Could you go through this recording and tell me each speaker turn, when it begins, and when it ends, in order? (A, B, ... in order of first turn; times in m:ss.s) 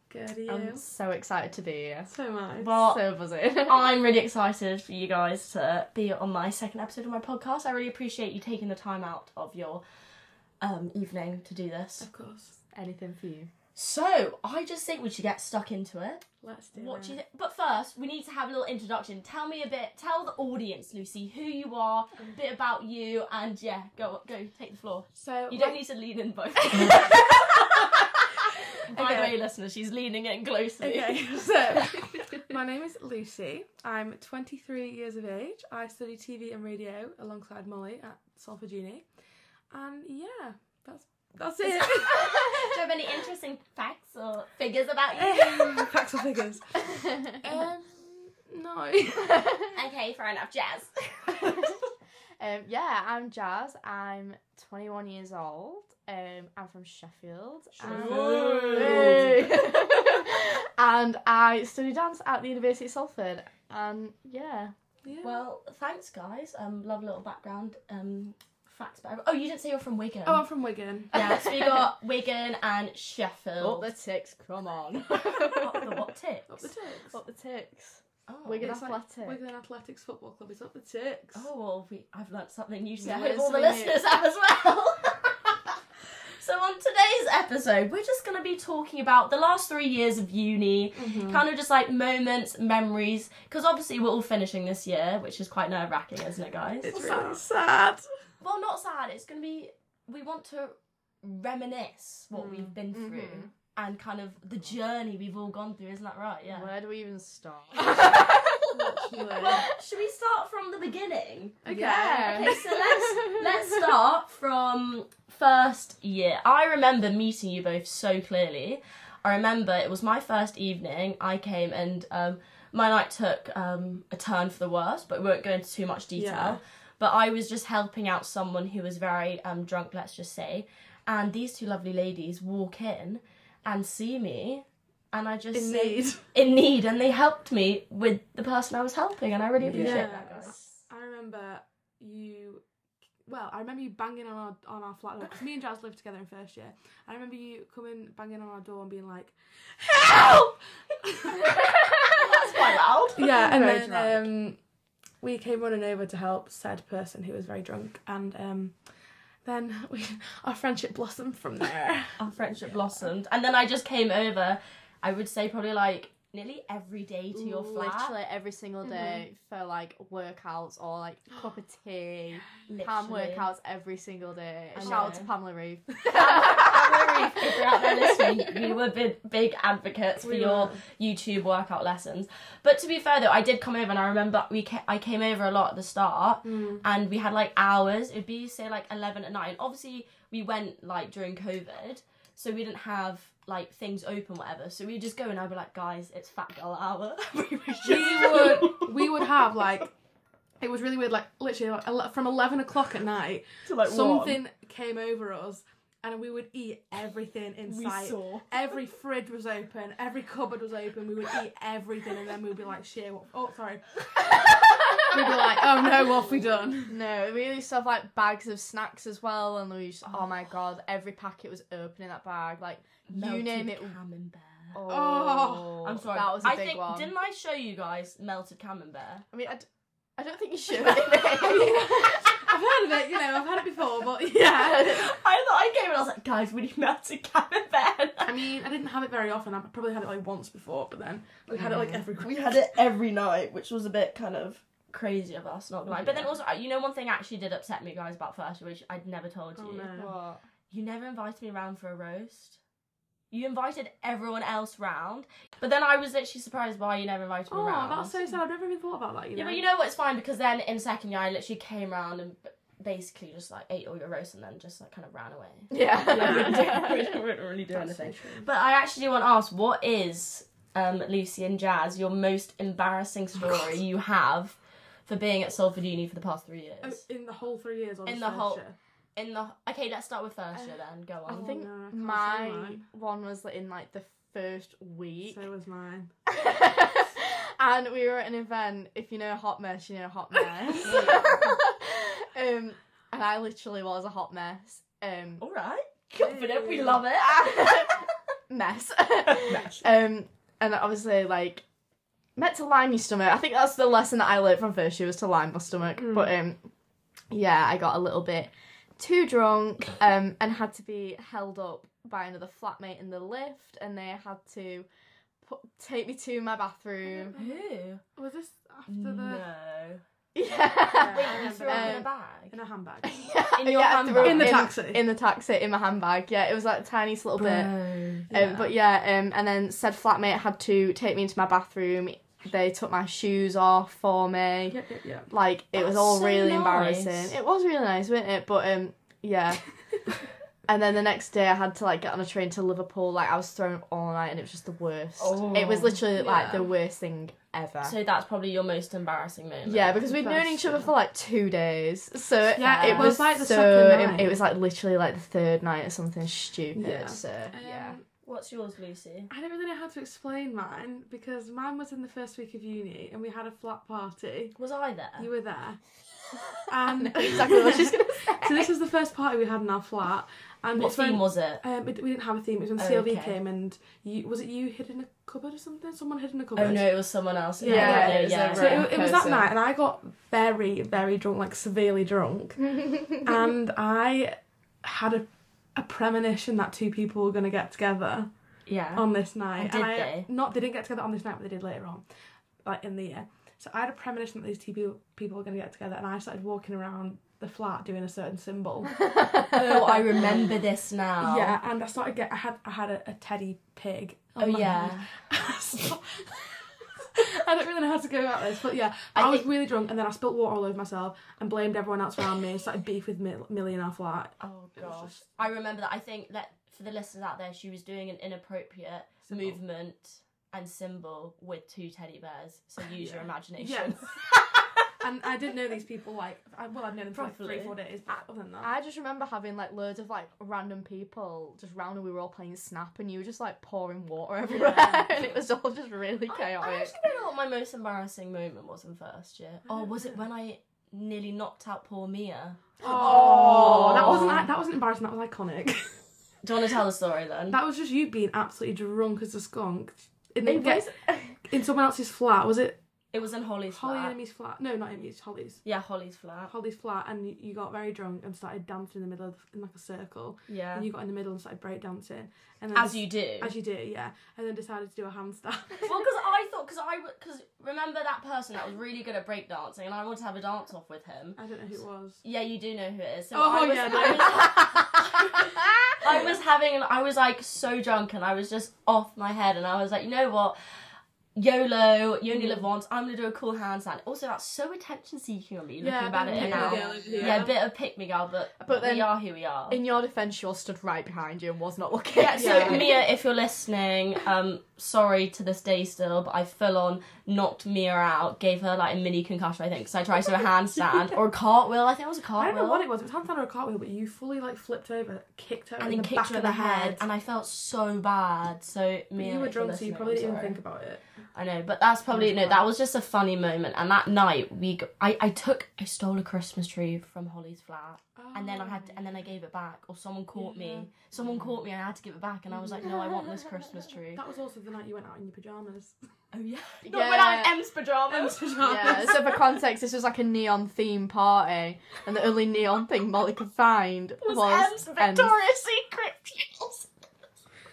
0:00.1-0:00.8 A
0:00.5-0:02.1 B
0:02.1-0:02.7 A
0:02.6-0:03.0 C
0:02.7-0:03.9 B
0:03.6-0:09.8 C
0:10.6-0:12.1 C
0:12.0-0:12.6 A
0:12.7-0:13.5 B
0:13.8-0:32.4 C
0:16.4-0:17.2 A
0:25.2-0:25.8 A
0:28.9-0:29.4 A
0:30.8-0:39.1 A
0:39.7-0:42.6 A
0:41.6-0:45.9 C
0:45.2-0:49.6 A
0:46.9-0:47.6 B
0:49.3-0:49.7 B
0:49.7-0:51.8 C
0:51.4-0:51.8 B
0:52.4-1:04.7 B
0:57.8-0:59.5 C
0:57.8-0:59.5 A
1:05.0-1:05.4 A
1:05.2-1:10.4 C
1:10.3-1:11.1 A
1:11.1-1:13.9 C
1:11.1-1:11.9 B
1:13.6-1:16.0 B
1:15.1-1:16.7 C
1:16.5-1:17.2 A
1:17.1-1:19.4 B
1:18.3-1:18.8 C
1:18.6-1:21.5 A
1:21.3-1:25.8 C
1:23.0-1:24.0 B
1:26.4-1:37.4 C
1:31.0-1:31.4 A
1:36.8-1:38.0 A
1:38.4-1:46.7 C
1:42.3-1:42.8 A
1:42.9-1:43.5 B
1:46.5-1:49.7 B
1:47.9-1:49.7 A
1:48.0-1:48.4 C
1:49.4-2:20.7 C
1:51.6-1:52.7 A
1:51.7-1:53.6 B
2:06.2-2:06.6 A
2:15.5-2:16.2 A
2:19.7-2:20.1 B
2:19.7-2:22.6 A
2:23.3-2:31.6 A
2:31.4-2:32.6 B
2:32.2-2:33.3 C
2:33.2-2:34.6 A
2:33.2-2:34.3 B
2:35.2-2:38.8 A
2:39.4-2:42.3 A
2:42.2-2:48.2 C
2:47.3-2:57.1 B
2:48.9-2:49.2 A
2:52.7-2:53.5 C
2:54.8-2:55.3 C
2:56.0-3:19.5 C
2:57.8-2:58.5 B
3:00.2-3:00.8 A
3:06.4-3:06.8 A
3:17.8-3:19.9 A
3:20.6-3:36.9 A
3:23.7-3:24.4 C
3:27.7-3:28.5 C
3:34.3-3:35.5 B
3:36.9-3:44.0 B
3:43.1-3:44.8 C
3:44.7-3:47.1 B
3:44.9-3:45.8 A
3:45.8-3:49.3 C
3:49.3-3:52.5 B
3:51.3-3:55.1 A
3:54.6-3:58.4 C
3:58.2-4:02.4 A
4:01.6-4:02.0 B
4:02.2-4:09.9 C
4:09.6-4:10.1 A
4:10.0-4:10.4 B
4:10.7-4:12.6 C
4:13.3-4:18.2 C
4:17.5-4:19.6 A
4:19.4-4:37.0 C
4:25.7-4:27.1 B
4:26.1-4:26.9 A
4:27.7-4:28.5 A
4:36.8-4:38.8 A
4:38.1-4:38.6 C
4:39.2-4:41.5 C
4:41.3-4:42.8 A
4:41.3-4:45.4 B
4:45.3-4:46.1 A
4:46.3-4:55.4 B
4:50.8-4:51.5 C
4:55.4-4:57.9 C
4:56.2-4:57.0 A
4:57.2-5:01.6 B
5:02.4-5:06.6 B
5:06.0-5:06.3 A
5:07.3-5:14.9 B
5:15.4-5:17.4 B
5:17.1-5:17.6 A
5:17.4-5:18.0 C
5:18.2-5:19.4 A
5:18.9-5:20.0 C
5:20.4-5:22.0 B
5:20.9-5:23.2 A
5:21.1-5:22.5 C
5:23.0-5:27.7 B
5:23.6-5:24.7 C
5:24.2-5:25.0 A
5:27.4-5:28.3 C
5:28.3-5:34.8 B
5:28.3-5:28.7 A
5:34.7-5:35.3 A
5:35.3-5:39.6 B
5:35.8-5:37.4 C
5:40.7-5:48.0 B
5:45.2-5:46.0 C
5:46.1-5:46.7 A
5:47.8-5:50.0 C
5:49.7-5:58.0 B
5:50.1-5:50.8 A
5:52.5-5:54.4 A
5:52.7-5:53.2 C
5:56.8-5:58.0 A
5:58.2-5:59.3 C
5:59.3-6:04.6 A
6:04.6-6:05.3 C
6:05.2-6:05.8 A
6:06.7-6:16.9 A
6:06.9-6:08.7 B
6:10.8-6:11.6 C
6:12.8-6:13.4 C
6:16.6-6:18.9 C
6:17.6-6:28.3 A
6:17.6-6:19.5 B
6:28.7-6:29.1 C
6:29.0-6:32.0 A
6:29.6-6:30.3 C
6:32.6-6:39.1 A
6:39.0-6:39.8 B
6:39.5-6:41.6 C
6:39.9-6:40.5 A
6:41.2-6:46.6 A
6:44.4-6:45.1 C
6:47.2-6:55.2 A
6:49.2-6:49.5 C
6:54.4-7:04.9 C
6:59.3-6:59.6 A
7:03.0-7:04.0 A
7:05.0-7:08.7 A
7:07.1-7:07.8 C
7:08.6-7:17.0 B
7:14.5-7:15.3 C
7:16.3-7:24.4 C
7:19.7-7:20.2 A
7:22.8-7:25.9 A
7:23.2-7:23.7 B
7:26.4-7:27.6 C
7:27.5-7:30.9 A
7:30.5-7:31.3 B
7:31.4-7:32.8 A
7:33.1-7:34.2 C
7:33.7-7:35.6 A
7:35.6-7:36.5 C
7:36.5-7:46.0 A
7:40.5-7:40.9 C
7:42.8-7:43.5 C
7:45.8-7:51.4 C
7:51.4-7:52.2 A
7:52.2-8:00.6 C
7:53.3-7:55.0 A
8:01.4-8:09.8 C
8:05.8-8:07.5 A
8:06.3-8:07.5 B
8:08.6-8:09.1 B
8:09.7-8:13.0 B
8:12.1-8:22.9 C
8:12.4-8:13.0 A
8:22.4-8:27.0 A
8:25.8-8:30.6 C
8:29.2-8:31.0 A
8:31.4-8:44.2 C
8:32.1-8:32.7 A
8:38.2-8:39.3 A
8:40.4-8:41.1 A
8:44.2-8:45.9 A
8:46.3-8:49.3 C
8:46.8-8:47.5 B
8:48.1-8:49.4 A
8:48.6-8:55.4 B
8:54.2-8:56.9 C